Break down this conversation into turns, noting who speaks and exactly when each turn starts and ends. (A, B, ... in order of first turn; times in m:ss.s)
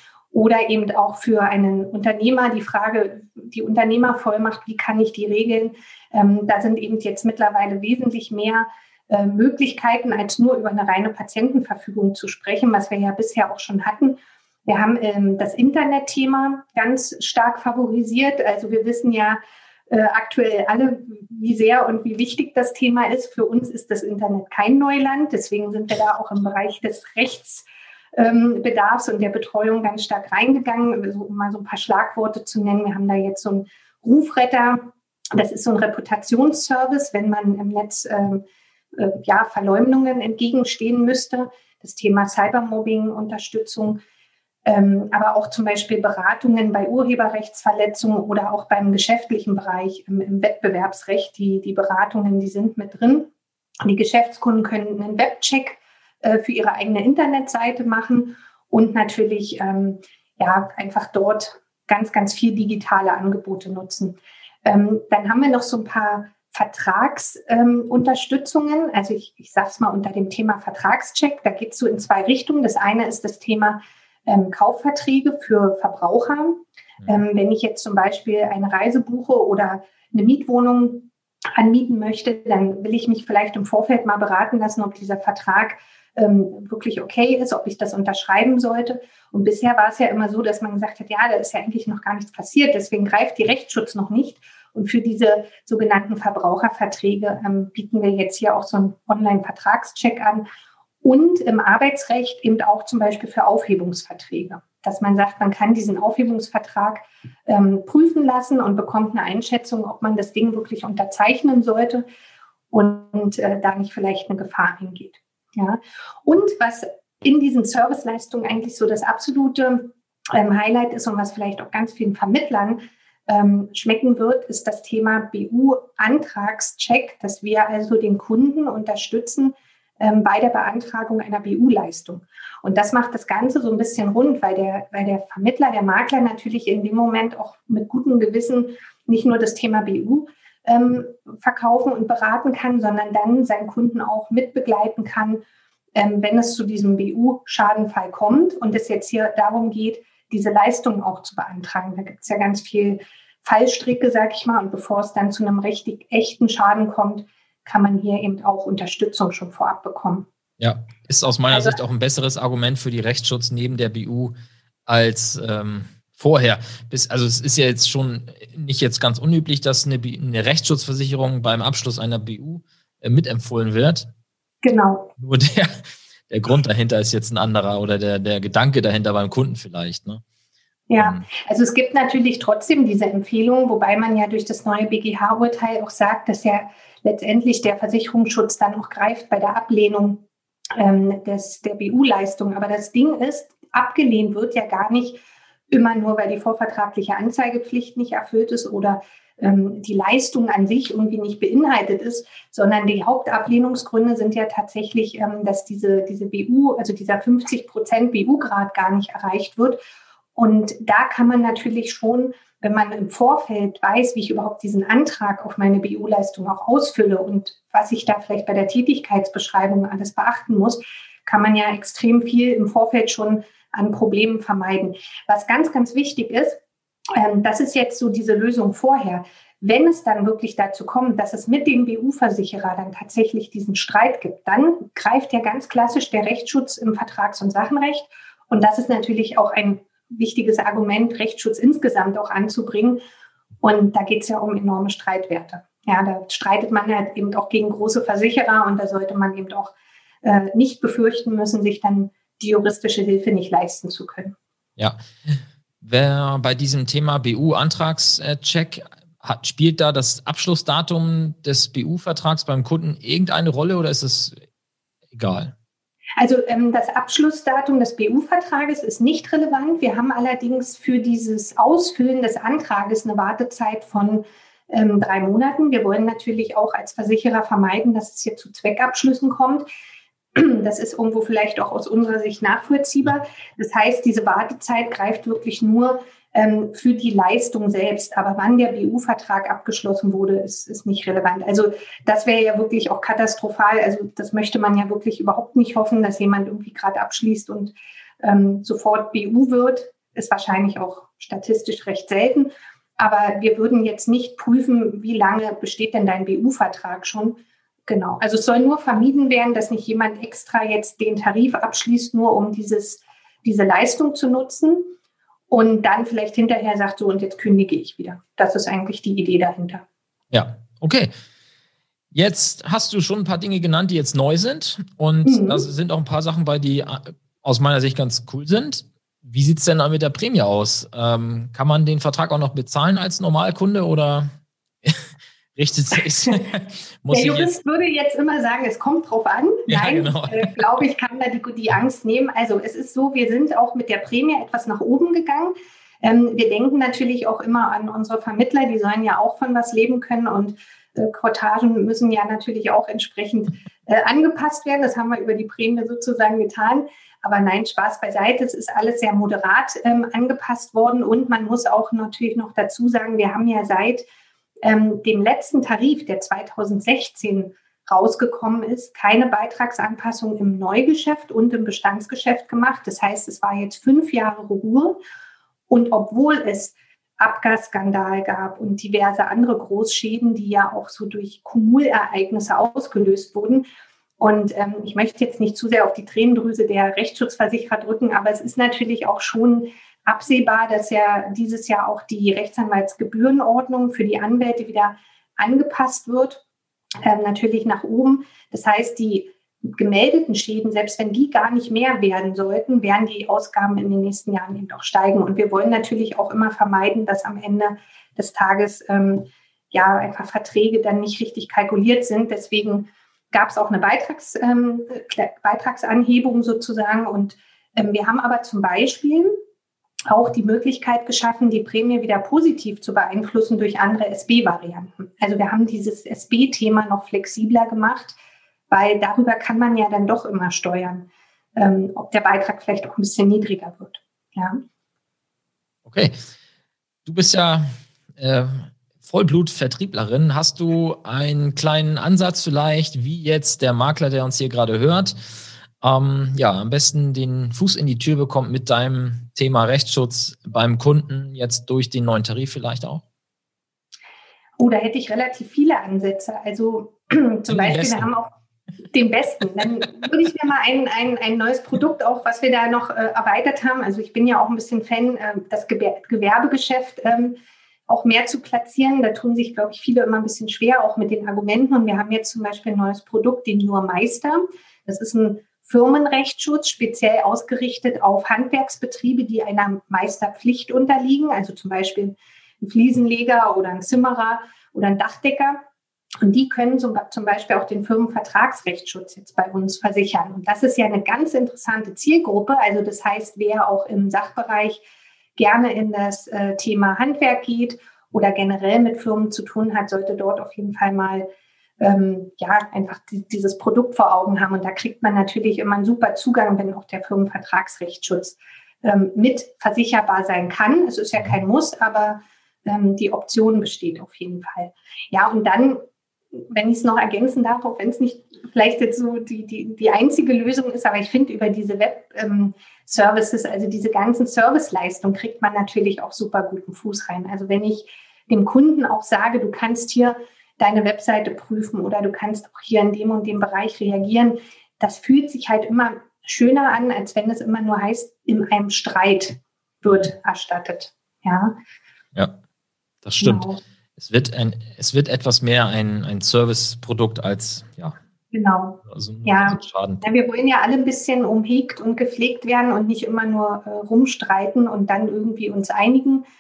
0:00.3-0:44.0 A
0:44.6-0:53.3 A
0:53.8-1:40.4 A
1:41.0-1:52.0 A
1:52.7-2:25.4 A
2:25.9-2:40.3 A
2:40.6-2:44.3 B
2:41.5-2:41.8 A
2:44.9-2:54.1 B
2:54.6-2:55.1 A
2:55.2-3:00.2 B
3:00.9-3:10.2 A
3:01.0-3:01.2 B
3:10.8-3:29.8 A
3:30.3-3:46.6 A
3:47.1-4:03.0 A
4:03.6-4:14.3 A
4:14.8-4:24.4 B
4:25.1-4:25.5 B
4:26.2-4:39.6 A
4:40.3-5:14.9 A
5:15.5-5:19.8 A
5:20.3-5:21.1 B
5:22.1-5:34.3 B
5:25.2-5:25.7 A
5:35.6-5:37.5 B
5:37.1-6:04.0 A
5:39.7-5:40.6 B
6:04.6-6:15.0 A
6:15.7-6:23.6 A
6:24.2-6:36.4 A
6:37.0-6:59.3 A
7:00.1-7:08.2 A
7:08.7-7:14.6 A
7:15.8-7:16.1 B
7:17.0-7:17.6 B
7:18.2-7:25.2 B
7:25.8-7:33.0 B
7:34.6-7:38.3 A
7:37.5-7:38.1 B
7:38.9-7:47.4 A
7:47.9-8:05.6 A
8:06.2-8:14.8 A
8:15.4-8:21.2 A
8:21.8-8:35.8 A
8:36.4-9:01.6 A
8:59.8-9:00.1 B
9:03.0-9:03.4 B
9:03.2-9:03.6 A
9:04.0-9:08.0 B
9:08.3-9:16.2 A
9:08.8-9:10.0 B